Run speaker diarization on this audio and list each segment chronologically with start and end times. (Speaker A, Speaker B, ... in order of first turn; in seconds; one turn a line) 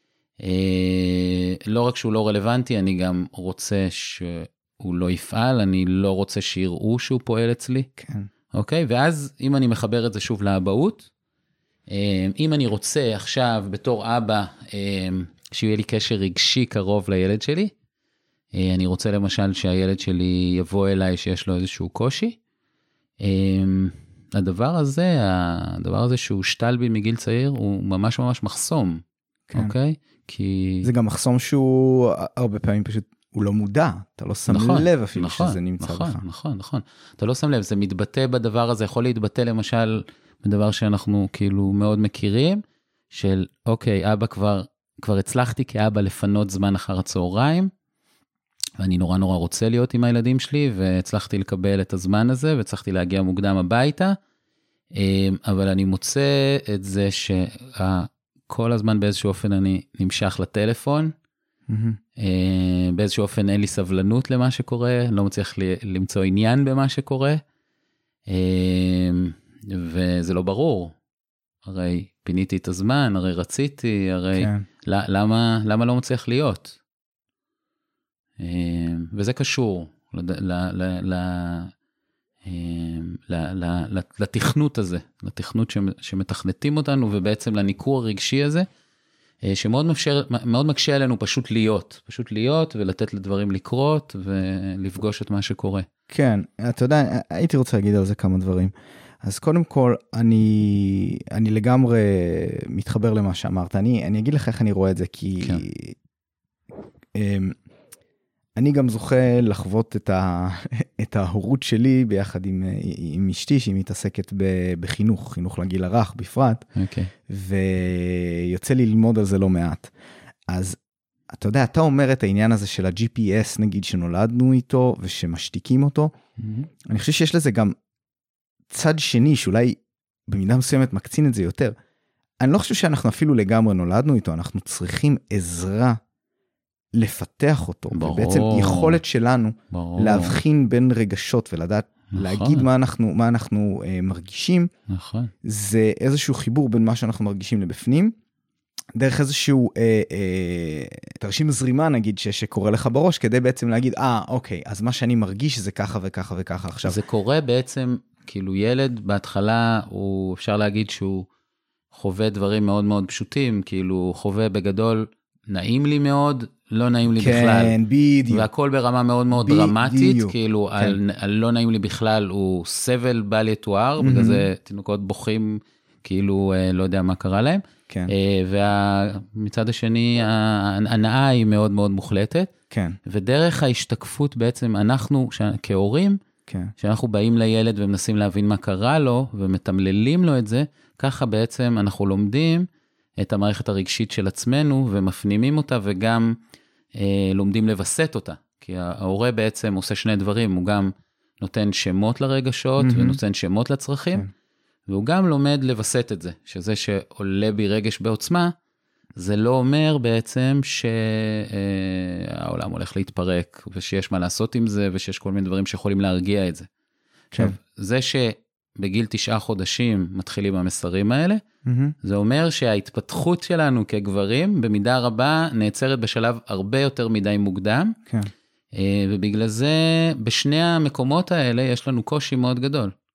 Speaker A: 0.4-7.9
Speaker B: 8.0-8.3
Speaker A: 8.5-11.1
Speaker A: 11.9-17.7
Speaker A: 18.5-22.4
Speaker A: 23.2-29.0
Speaker A: 29.5-30.9
Speaker B: 30.8-36.2
Speaker A: 34.5-47.7
Speaker A: 48.8-54.1
Speaker A: 54.9-61.1
Speaker B: 61.7-62.0
Speaker A: 62.2-67.4
Speaker A: 68.3-70.9
Speaker A: 71.6-76.8
Speaker B: 74.4-74.6
Speaker A: 78.4-81.7
Speaker A: 82.4-88.7
Speaker A: 89.4-95.9
Speaker B: 96.1-106.0
Speaker B: 107.1-107.6
Speaker B: 108.6-116.7
Speaker A: 116.8-117.1
Speaker B: 117.3-119.9
Speaker B: 120.5-120.8
Speaker B: 121.3-126.1
Speaker A: 126.4-126.7
Speaker B: 126.8-127.7
Speaker B: 128.7-131.7
Speaker B: 132.4-136.0
Speaker B: 136.9-144.7
Speaker A: 137.9-139.0
Speaker A: 139.7-140.4
Speaker A: 142.1-142.7
Speaker A: 144.9-145.3
Speaker B: 145.4-148.1
Speaker B: 148.9-157.0
Speaker A: 156.8-161.3
Speaker A: 161.9-167.8
Speaker B: 167.2-168.5
Speaker A: 168.3-182.5
Speaker B: 169.3-171.0
Speaker B: 174.0-174.5
Speaker B: 182.7-183.0
Speaker A: 183.1-186.2
Speaker B: 186.5-186.7
Speaker A: 186.8-192.7
Speaker A: 193.2-196.3
Speaker A: 196.9-204.3
Speaker B: 202.8-203.2
Speaker A: 204.9-208.5
Speaker A: 209.1-216.7
Speaker A: 217.4-221.4
Speaker B: 221.6-221.9
Speaker A: 222.0-228.0
Speaker A: 228.7-232.9